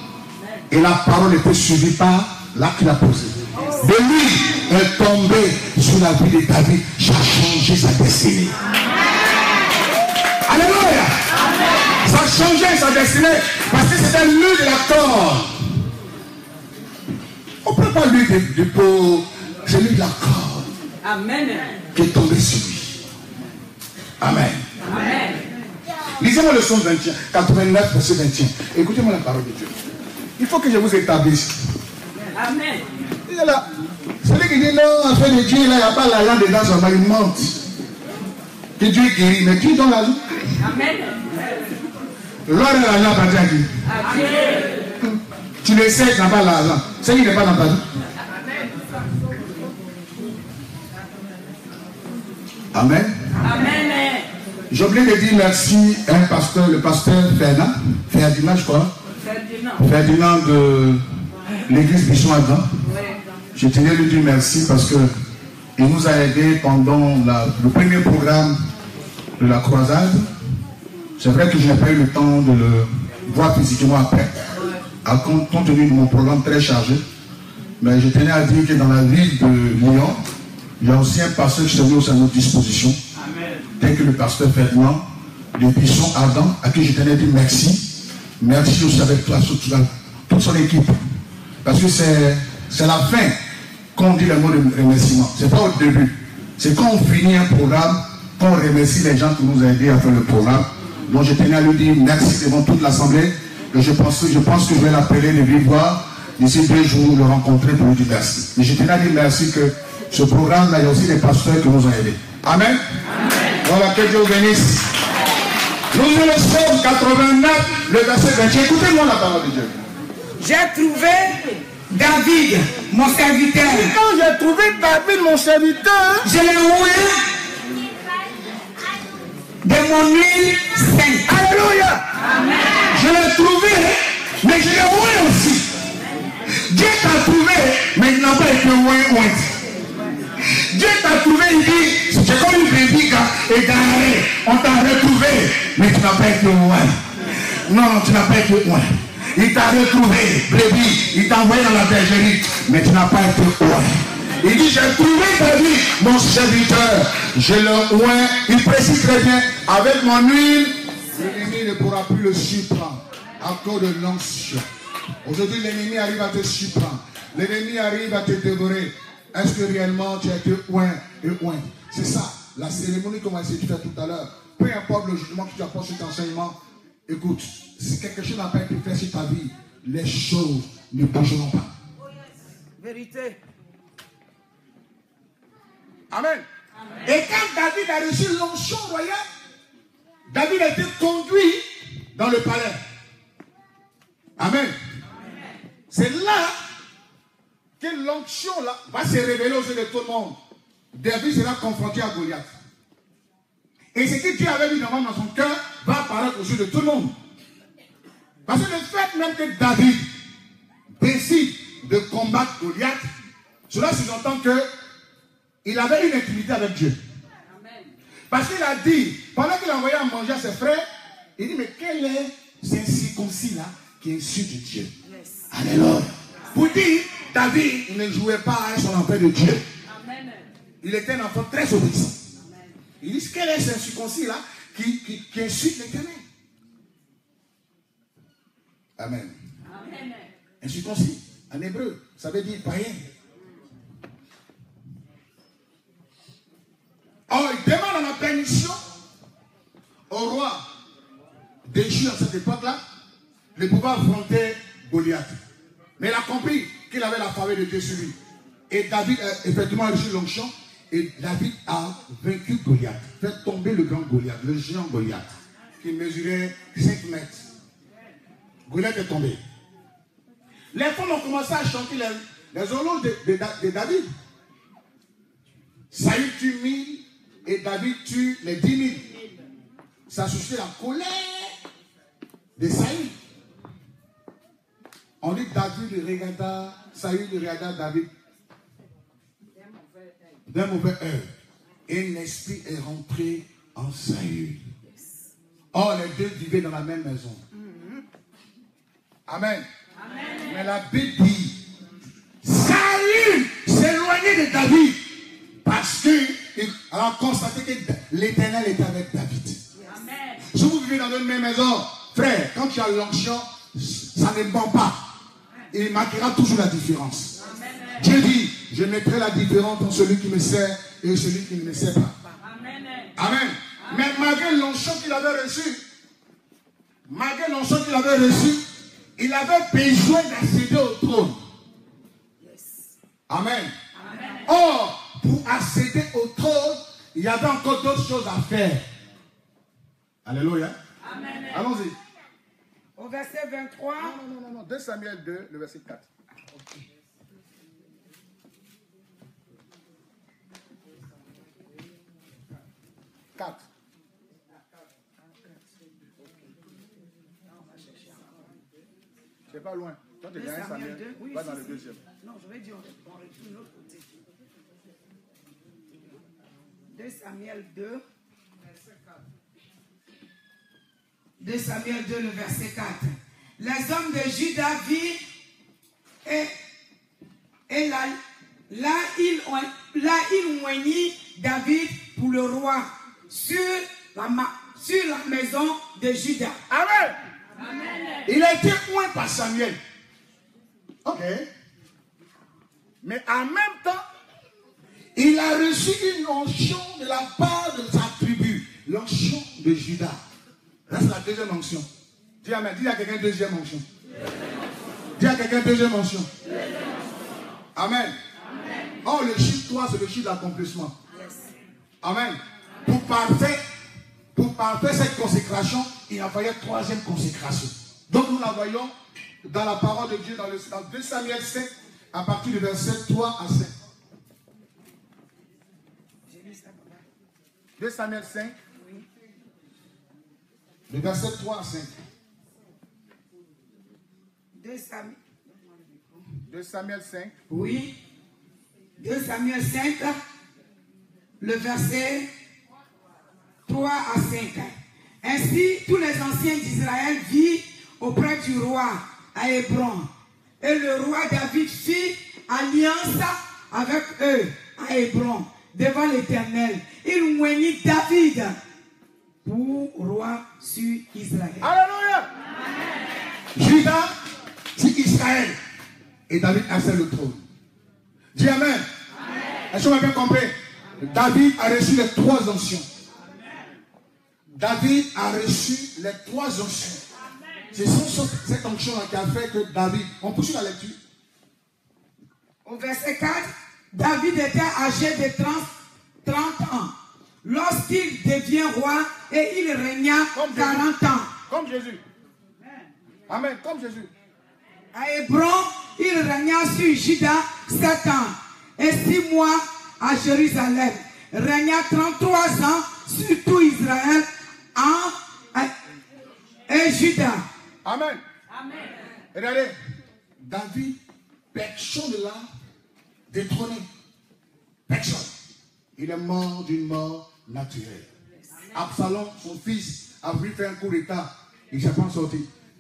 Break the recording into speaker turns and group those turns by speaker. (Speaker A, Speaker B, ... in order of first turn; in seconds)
Speaker A: 0.7-8.5, 10.5-11.2, 12.0-15.6, 17.6-20.7, 21.9-23.0, 24.2-24.7, 26.2-29.8, 30.4-31.6, 33.3-33.6, 34.2-37.6, 38.8-40.2, 42.5-43.7, 45.0-47.8, 52.7-53.4, 54.7-58.9, 59.8-61.0, 61.7-62.7, 63.5-65.1, 65.8-68.6, 69.4-70.3, 71.2-74.3, 75.0-77.0, 77.8-80.2, 80.8-83.0, 83.8-87.9, 88.4-91.0, 91.6-93.4, 94.0-112.8, 113.6-114.9, 115.9-119.8, 123.6-126.3, 131.3-132.0, 132.9-135.8, 136.7-139.6, 140.5-147.0, 147.7-164.7, 165.2-176.6, 177.1-181.7, 186.1-186.5, 187.1-189.2, 190.3-192.8, 194.4-194.8, 195.9-196.6, 197.8-200.4, 200.9-202.5, 203.9-207.2, 208.5-210.1, 211.0-213.1, 213.7-214.7, 215.6-217.0, 218.3-220.8, 221.4-224.9, 225.5-229.7, 230.8-232.2, 233.0-236.2, 239.0-239.4, 240.6-243.1, 247.3-248.8, 250.1-250.7, 251.7-252.8, 253.6-255.4, 256.0-258.1, 258.7-267.5, 268.7-269.4, 270.7-274.1, 275.9-279.1, 280.1-281.6, 282.6-283.1, 285.2-288.1, 290.5-291.3, 291.9-294.6, 295.7-297.4, 299.3-299.7, 300.4-301.6, 302.4-305.1, 305.6-309.6, 310.5-315.0, 315.7-317.4, 318.0-322.1, 323.2-325.8, 327.1-328.6, 329.2-331.4, 333.3-333.7, 334.5-338.8, 340.2-340.8, 341.5-342.0, 344.0-346.1, 353.4-353.6, 359.5-362.0, 386.7-387.2, 388.3-389.8, 391.1-391.5, 393.0-394.0, 395.1-400.2, 400.9-401.9, 402.4-403.9, 405.2-406.3, 407.8-408.2, 409.0-410.9, 412.0-413.6, 414.4-418.9, 419.4-423.7, 427.8-428.6, 430.9-431.9, 436.5-437.4, 461.6-462.3, 463.6-464.1, 464.8-465.6, 466.3-467.4, 468.4-468.9, 469.7-472.9, 474.6-477.0, 477.7-481.0, 490.3-490.9, 491.5-492.0, 493.3-494.1, 507.9-508.2, 509.3-509.8, 510.5-511.0, 511.5-512.5, 513.3-513.9, 514.9-515.3, 516.0-518.1, 518.7-522.5
Speaker B: 21.0-21.8, 24.9-25.4, 32.3-32.8, 40.6-41.3, 43.9-44.7, 53.4-54.2, 59.2-59.8, 217.5-217.8, 229.9-230.4, 239.7-240.3, 309.9-310.4, 317.5-317.9, 322.4-323.1, 508.7-508.9
Speaker C: 120.4-123.9, 126.2-127.3, 129.6-131.3, 182.8-183.4, 332.4-332.9, 343.0-344.2, 357.5-358.4, 360.4-364.1, 366.9-368.0, 371.4-375.2, 376.2-376.5, 377.7-386.6, 426.3-427.1, 434.6-435.2, 437.5-437.9, 439.0-440.2, 441.4-442.3, 443.7-450.1, 450.6-458.6, 459.4-461.7, 482.6-491.3, 494.9-505.7, 506.7-507.4